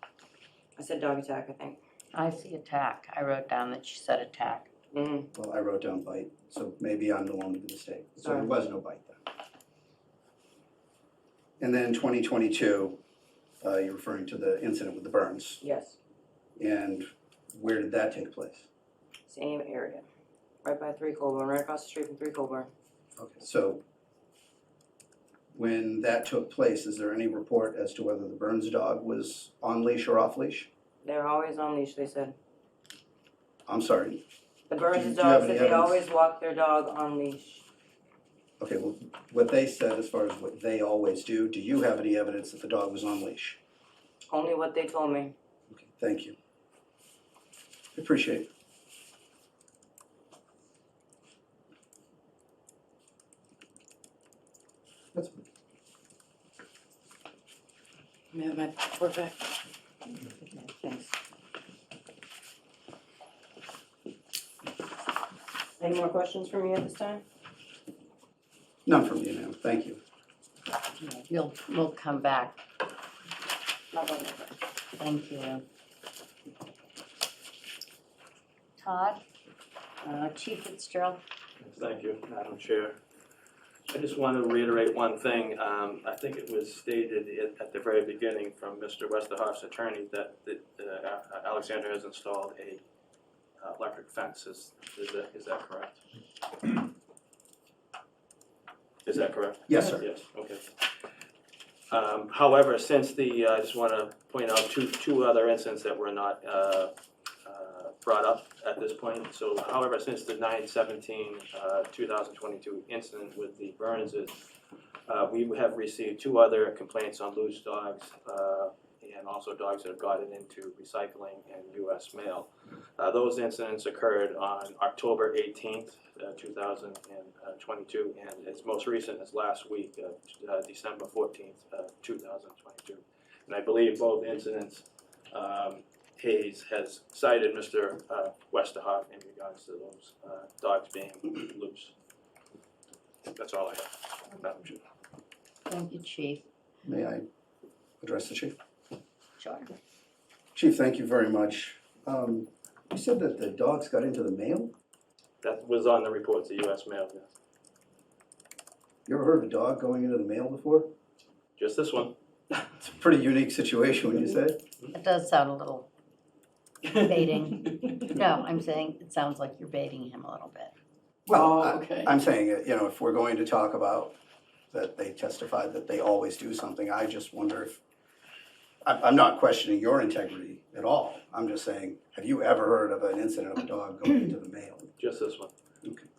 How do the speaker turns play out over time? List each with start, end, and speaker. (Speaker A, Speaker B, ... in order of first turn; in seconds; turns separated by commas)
Speaker A: 0.8-1.8, Speaker B: 2.1-4.7, Speaker A: 4.9-5.3, Speaker C: 5.3-9.2, Speaker A: 8.2-8.5, Speaker C: 11.6-13.0, Speaker C: 13.6-15.6, Speaker A: 15.6-16.0, Speaker C: 16.6-18.7, Speaker A: 19.3-20.1, Speaker A: 20.6-22.7, Speaker C: 23.2-23.8, Speaker C: 25.6-30.7, Speaker A: 31.0-32.4, Speaker C: 33.7-34.2, Speaker A: 34.7-37.6, Speaker C: 34.9-36.0, Speaker C: 38.6-43.6, Speaker A: 44.3-45.3, Speaker C: 45.7-46.4, Speaker C: 48.0-48.5, Speaker A: 58.3-59.6, Speaker A: 60.4-61.1, Speaker A: 65.8-67.2, Speaker C: 68.9-70.0, Speaker B: 71.0-72.6, Speaker A: 73.9-74.6, Speaker B: 75.0-75.6, Speaker B: 78.8-79.2, Speaker B: 80.0-81.2, Speaker D: 81.6-83.0, Speaker D: 83.9-92.8, Speaker D: 93.6-96.0, Speaker D: 99.0-100.9, Speaker C: 99.7-100.1, Speaker D: 101.9-106.9, Speaker D: 107.5-114.4, Speaker D: 115.1-141.9, Speaker D: 143.3-144.8, Speaker B: 145.7-146.4, Speaker C: 146.8-147.3, Speaker C: 148.0-148.6, Speaker B: 149.4-149.7, Speaker C: 150.6-154.7, Speaker D: 155.4-157.3, Speaker C: 159.1-160.9, Speaker D: 161.6-162.1, Speaker C: 162.8-164.6, Speaker B: 164.9-165.9, Speaker B: 166.9-170.7, Speaker C: 171.3-174.2, Speaker A: 171.3-172.1, Speaker C: 174.7-177.8, Speaker C: 178.8-184.9, Speaker D: 185.0-185.5